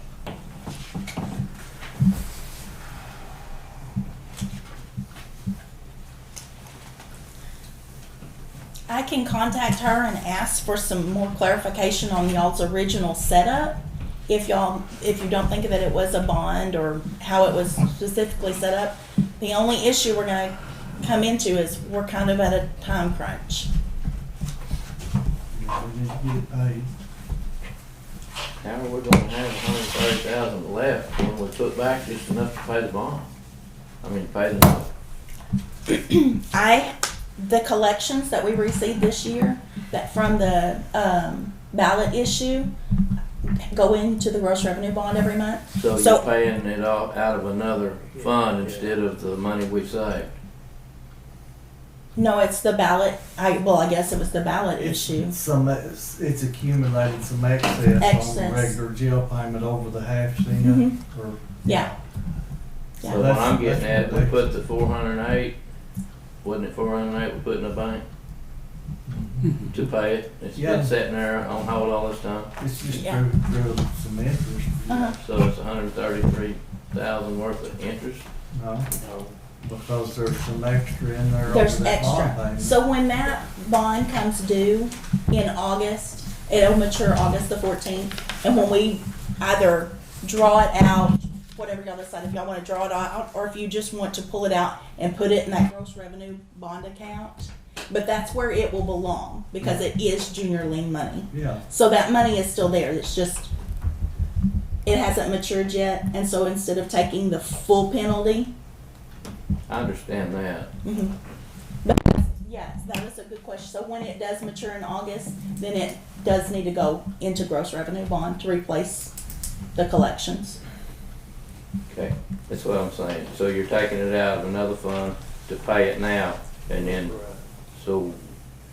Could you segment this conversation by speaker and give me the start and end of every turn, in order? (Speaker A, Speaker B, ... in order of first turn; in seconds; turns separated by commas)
Speaker A: 8.9-23.7, Speaker B: 25.5-26.9, Speaker C: 28.6-33.3, Speaker C: 34.0-34.9, Speaker A: 35.9-42.7, Speaker A: 43.4-46.2, Speaker C: 45.7-50.3, Speaker A: 52.1-55.4, Speaker B: 54.8-62.0, Speaker A: 58.0-58.8, Speaker A: 60.6-61.0, Speaker C: 63.0-65.5, Speaker B: 63.0-64.5, Speaker C: 66.4-68.0, Speaker B: 69.0-69.5, Speaker C: 69.7-72.5, Speaker B: 70.5-70.9, Speaker B: 72.6-75.1, Speaker A: 72.9-73.2, Speaker A: 74.9-75.2, Speaker C: 75.1-78.2, Speaker B: 78.5-78.9, Speaker B: 79.6-82.7, Speaker A: 81.5-103.5, Speaker B: 99.6-99.8, Speaker B: 101.3-101.6, Speaker A: 104.8-108.5, Speaker C: 109.7-110.7, Speaker A: 110.8-111.1, Speaker A: 111.8-119.1, Speaker A: 119.8-120.6, Speaker C: 121.9-127.1, Speaker B: 126.7-127.4, Speaker C: 127.7-128.2